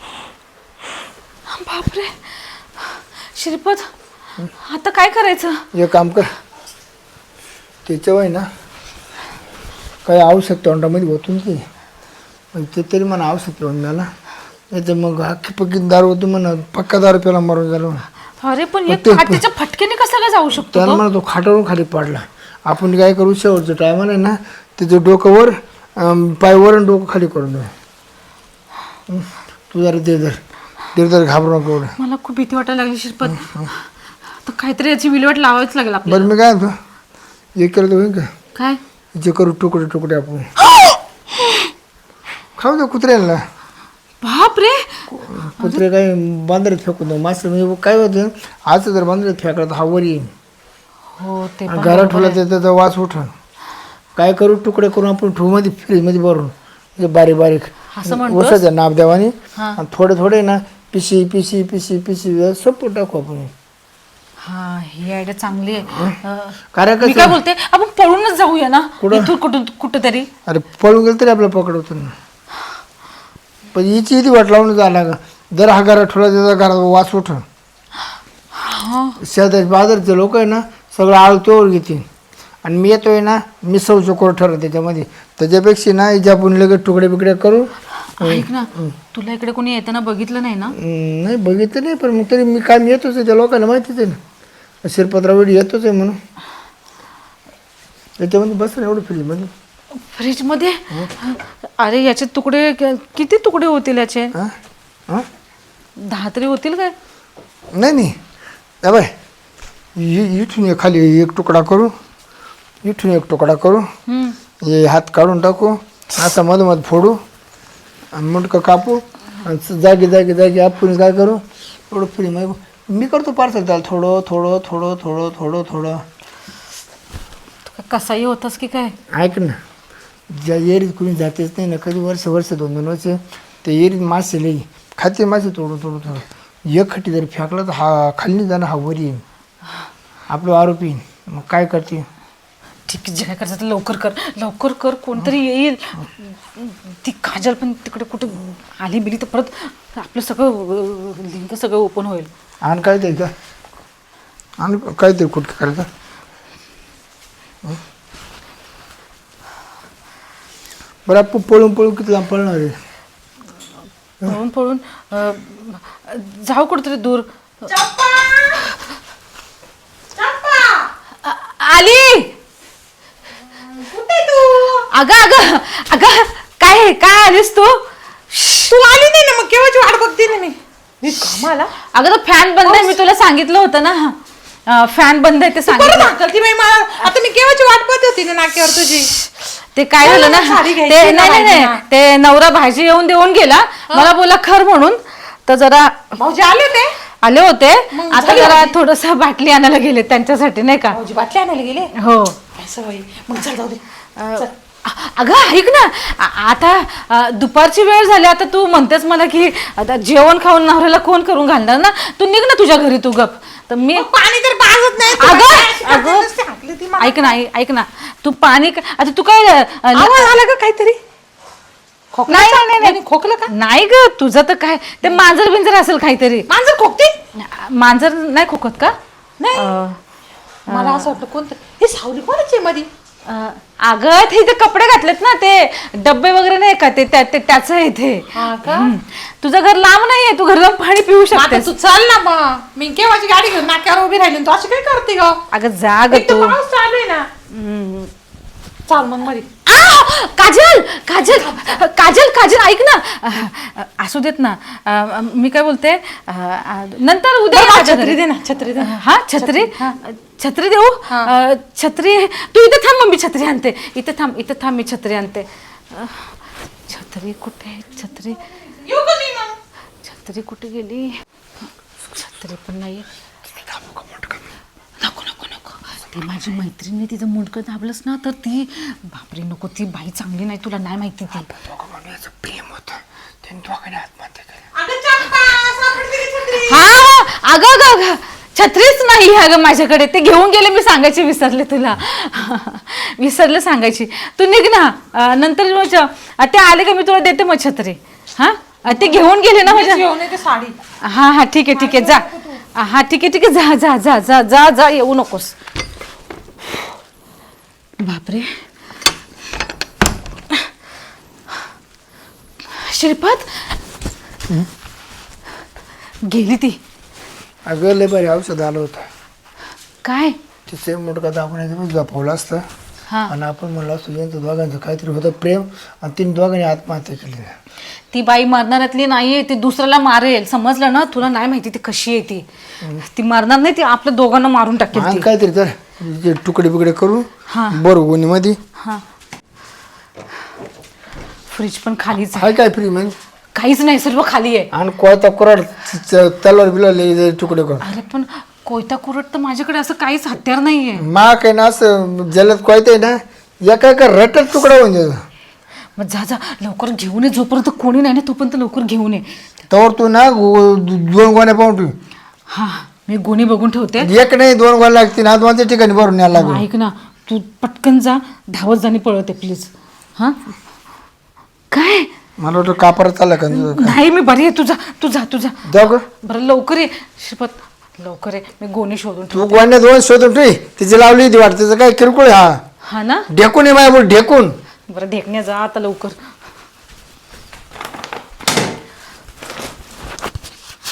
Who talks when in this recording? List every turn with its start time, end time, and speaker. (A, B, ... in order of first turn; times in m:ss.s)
0:01.5-0:03.9 A
0:04.6-0:05.7 A
0:05.7-0:06.3 B
0:07.8-0:08.5 B
0:10.0-0:11.6 B
0:12.5-0:14.1 B
0:14.7-0:18.0 B
0:18.4-0:21.0 A
0:18.9-0:19.4 B
0:20.7-0:27.7 B
0:29.1-0:30.4 B
0:30.9-0:32.0 B
0:32.0-0:33.7 A
0:34.4-0:36.3 A
0:36.1-0:36.8 B
0:37.6-0:38.3 B
0:39.2-0:40.5 B
0:42.6-0:43.4 B
0:44.2-0:45.8 A
0:45.1-0:50.3 B
0:51.2-0:52.4 A
0:51.7-0:53.3 B
0:54.2-1:03.5 B
0:57.9-0:58.6 A
1:04.4-1:10.3 A
1:05.9-1:06.2 B
1:06.7-1:07.4 B
1:09.0-1:09.3 B
1:10.5-1:12.2 B
1:13.7-1:17.4 B
1:18.6-1:19.2 A
1:19.2-1:22.1 B
1:22.6-1:29.0 B
1:28.1-1:30.8 A
1:30.7-1:34.2 B
1:34.8-1:36.2 B
1:38.2-1:39.5 B
1:40.1-1:44.3 A
1:46.0-1:47.0 A
1:47.7-1:48.2 B
1:48.8-1:49.1 B
1:50.0-1:52.0 B
1:52.8-1:53.9 B
1:54.1-1:54.4 A
1:54.6-1:57.2 B
1:58.1-2:06.1 B
2:07.7-2:09.0 A
2:09.1-2:09.6 B
2:10.3-2:19.2 B
2:20.3-2:22.1 B
2:22.9-2:32.3 A
2:32.6-2:33.3 B
2:34.6-2:35.9 B
2:41.1-2:42.8 B
2:44.2-2:47.3 A
2:47.7-2:48.7 C
2:50.1-2:50.9 C
2:51.2-2:52.3 A
2:53.7-2:54.9 C
2:54.9-2:58.5 A
2:58.4-3:01.7 C
3:01.9-3:06.2 A
3:02.6-3:03.0 C
3:05.6-3:09.1 C
3:09.0-3:16.2 A
3:10.0-3:11.8 C
3:16.2-3:17.0 C
3:17.2-3:21.0 A
3:17.9-3:18.8 C
3:20.9-3:21.9 C
3:22.0-3:22.4 A
3:22.5-3:23.8 C
3:24.2-3:34.1 A
3:34.0-3:37.4 C
3:35.0-3:36.3 A
3:37.0-3:40.4 A
3:39.9-3:41.0 C
3:42.1-3:43.5 C
3:42.3-3:46.5 A
3:46.5-3:47.2 C
3:47.4-3:49.0 A
3:49.4-3:49.8 C
3:49.5-3:50.0 A
3:50.7-3:52.9 C
3:50.7-3:51.2 A
3:53.3-4:01.7 A
3:58.4-3:58.9 C
4:01.3-4:05.4 C
4:05.5-4:06.6 A
4:06.1-4:07.3 C
4:07.5-4:08.1 A
4:08.9-4:09.5 C
4:09.7-4:18.2 A
4:11.3-4:11.8 C
4:17.5-4:20.0 C
4:18.8-4:26.4 A
4:26.9-4:28.4 A
4:28.8-4:29.6 C
4:30.0-4:31.2 A
4:32.1-4:33.1 A
4:33.6-4:34.4 B
4:35.0-4:41.5 A
4:41.5-4:44.6 B
4:44.8-4:47.0 C
4:46.6-5:00.0 A
4:58.9-5:00.8 C
5:01.0-5:05.6 A
5:01.7-5:02.6 C
5:08.0-5:08.5 A
5:12.7-5:13.8 A
5:16.3-5:16.8 A
5:17.6-5:19.1 B
5:20.0-5:20.4 A
5:20.7-5:22.6 B
5:23.3-5:27.6 B
5:28.1-5:32.4 A
5:33.0-5:35.3 A
5:34.9-5:38.6 B
5:37.5-5:37.8 A
5:41.5-5:42.5 A
5:42.4-5:43.2 B
5:43.6-5:44.7 A
5:44.7-5:47.9 B
5:47.8-5:51.1 A
5:51.0-5:55.3 B
5:56.0-5:59.3 A
5:59.7-6:02.0 B
6:02.5-6:04.1 A
6:04.0-6:06.7 B
6:06.3-6:10.4 A
6:11.7-6:12.1 A
6:12.4-6:14.0 B
6:13.5-6:15.7 A
6:15.6-6:16.0 B
6:16.2-6:19.7 A
6:19.3-6:22.6 B
6:22.9-6:23.3 A
6:23.3-6:24.6 B
6:24.9-6:26.2 A